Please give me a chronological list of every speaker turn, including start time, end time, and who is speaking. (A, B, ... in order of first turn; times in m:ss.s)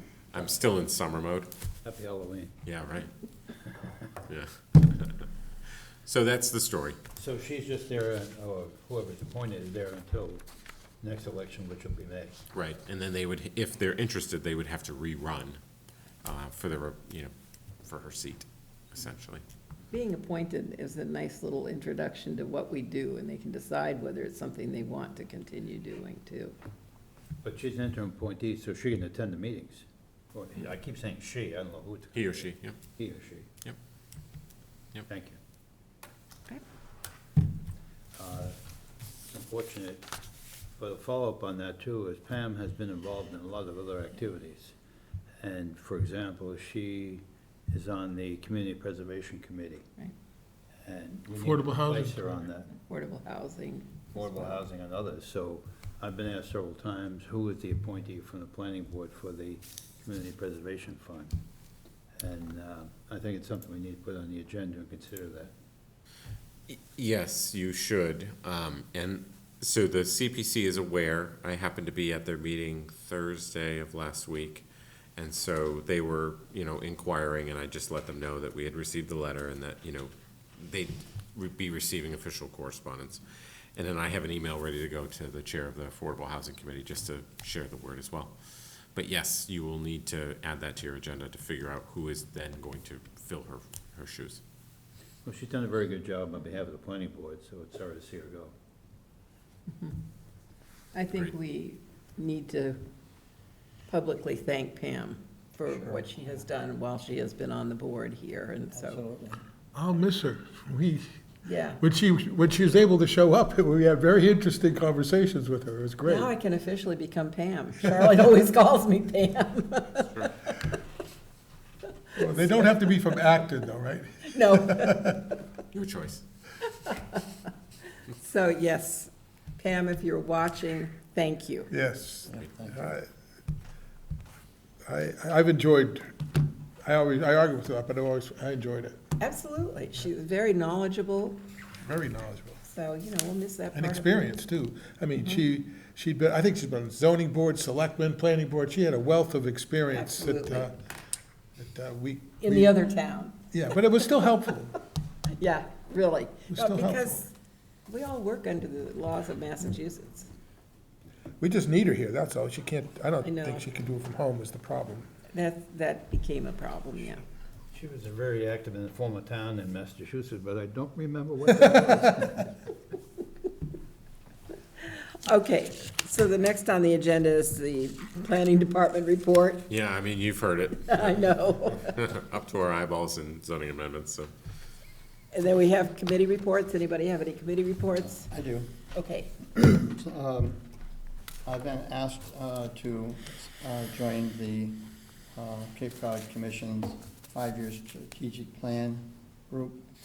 0:00.3-0:01.5 A
0:01.8-0:02.6 B
0:02.6-0:03.1 A
0:04.2-0:05.3 A
0:06.0-0:07.0 A
0:07.2-0:10.4 B
0:11.0-0:12.4 B
0:12.5-0:15.6 A
0:16.2-0:17.3 A
0:17.8-0:19.4 A
0:19.9-0:26.6 C
0:27.4-0:33.5 B
0:32.1-0:32.7 A
0:35.1-0:35.4 B
0:38.2-0:38.6 B
0:39.3-0:40.1 B
0:40.8-0:44.8 B
0:45.4-0:49.9 B
0:50.8-0:52.7 B
0:51.3-0:52.2 D
0:52.7-0:54.6 C
0:54.1-1:01.4 B
1:02.2-1:05.5 B
1:06.7-1:23.2 A
1:23.7-1:34.4 A
1:35.2-1:38.5 B
1:39.7-1:39.9 C
1:40.9-1:42.8 C
1:43.9-1:49.0 C
1:48.8-1:49.4 E
1:49.7-1:51.0 D
1:51.4-1:51.8 C
1:51.8-1:56.3 D
1:56.1-2:00.8 C
2:00.0-2:00.3 A
2:01.8-2:03.2 C
2:02.1-2:05.4 D
2:04.3-2:05.4 C
2:05.7-2:06.2 A
2:06.6-2:07.5 C
2:08.0-2:11.7 C
2:11.7-2:13.1 D
2:12.2-2:12.9 E
2:14.9-2:16.2 D
2:16.8-2:19.0 D
2:19.2-2:21.4 C
2:21.8-2:22.6 D
2:22.7-2:24.3 C
2:23.7-2:30.8 D
2:29.9-2:30.7 C
2:31.6-2:32.8 D
2:32.4-2:33.4 C
2:33.5-2:34.8 D
2:34.0-2:34.2 C
2:35.2-2:37.3 C
2:36.5-2:37.2 D
2:37.9-2:40.3 C
2:41.4-2:45.2 D
2:43.2-2:43.7 C
2:45.3-2:47.2 C
2:47.7-2:52.5 B
2:54.8-2:59.7 C
2:59.7-3:04.3 A
3:00.9-3:02.0 C
3:05.3-3:08.3 C
3:08.2-3:08.8 E
3:08.9-3:09.3 C
3:09.6-3:10.6 E
3:11.5-3:19.8 E